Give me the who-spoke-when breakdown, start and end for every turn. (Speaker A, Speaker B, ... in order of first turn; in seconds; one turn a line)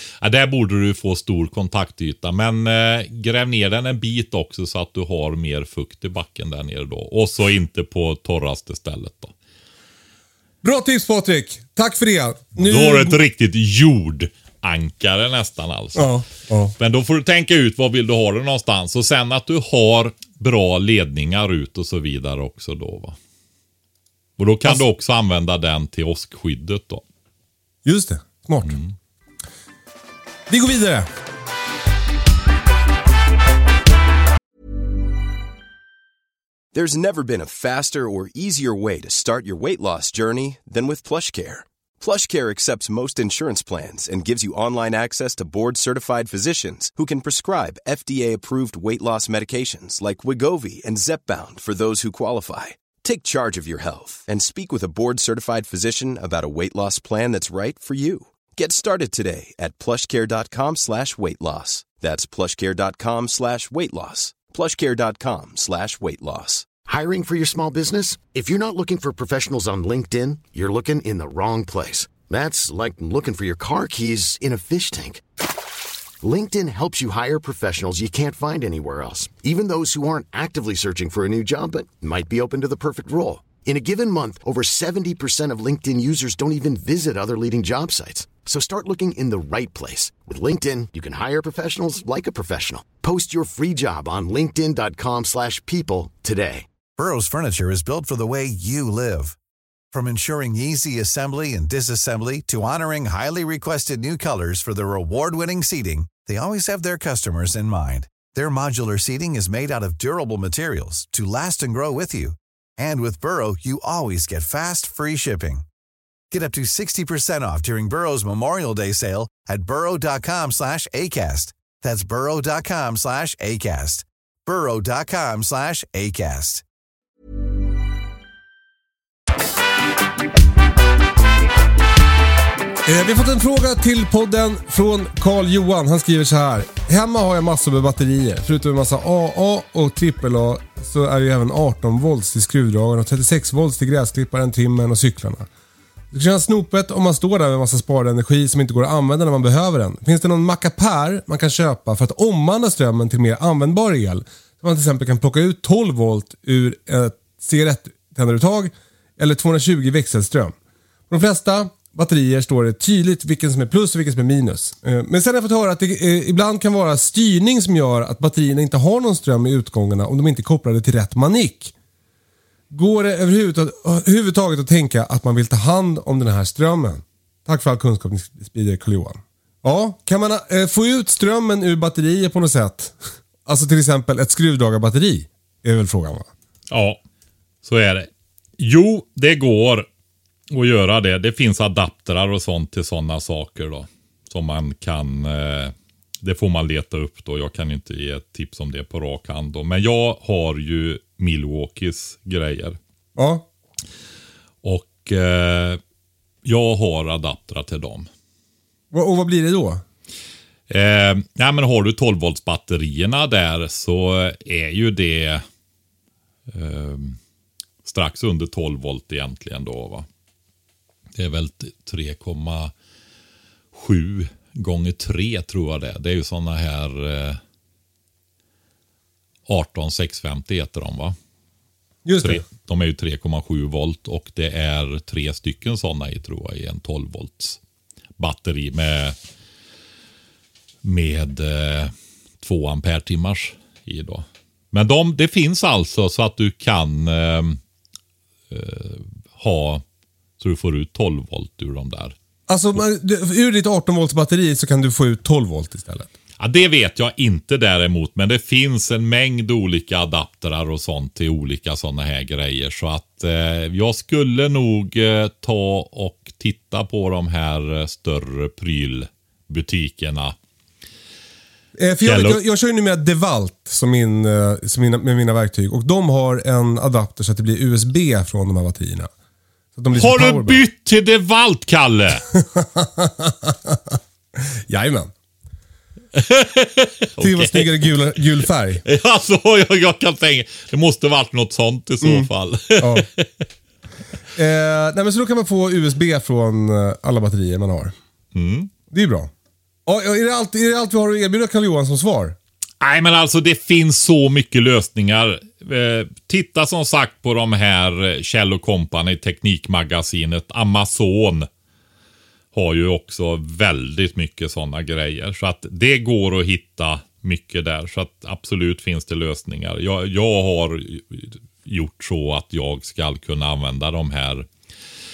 Speaker A: 0.2-9.3
Speaker B: 10.6-13.2
Speaker A: 12.6-16.1
Speaker B: 15.9-16.8
Speaker A: 16.8-23.2
Speaker A: 24.4-27.0
Speaker B: 27.9-28.8
Speaker A: 28.6-28.9
Speaker B: 30.5-31.1
Speaker C: 36.7-66.7
Speaker D: 66.9-75.2
Speaker D: 76.2-96.7
Speaker E: 97.0-99.4
Speaker E: 99.9-115.7
Speaker E: 116.3-126.6
Speaker B: 132.9-145.5
Speaker B: 146.1-160.5
Speaker B: 161.1-171.7
Speaker B: 172.7-186.3
Speaker A: 186.7-187.0
Speaker A: 187.6-189.9
Speaker A: 190.5-202.8
Speaker B: 203.2-203.5
Speaker A: 204.6-205.8
Speaker A: 206.4-208.1
Speaker B: 208.9-209.8
Speaker A: 210.7-215.4
Speaker A: 216.5-217.2
Speaker A: 217.8-220.1
Speaker A: 221.2-222.7
Speaker A: 223.7-227.4
Speaker A: 229.5-231.2
Speaker B: 232.1-232.4
Speaker A: 232.2-237.6
Speaker A: 238.2-239.2
Speaker A: 240.8-247.6
Speaker A: 248.5-249.8
Speaker A: 250.4-252.2
Speaker B: 252.5-256.1
Speaker A: 256.4-270.4
Speaker B: 271.8-279.1
Speaker A: 272.1-272.4
Speaker B: 279.8-280.6
Speaker A: 279.9-282.3
Speaker B: 282.3-284.0
Speaker B: 284.7-285.1
Speaker A: 286.1-287.9
Speaker B: 287.2-288.8
Speaker A: 288.8-293.3
Speaker B: 292.0-293.1
Speaker B: 294.4-297.9
Speaker A: 298.3-298.7
Speaker B: 298.9-299.3
Speaker B: 299.9-302.4
Speaker A: 302.8-311.5
Speaker A: 312.5-324.5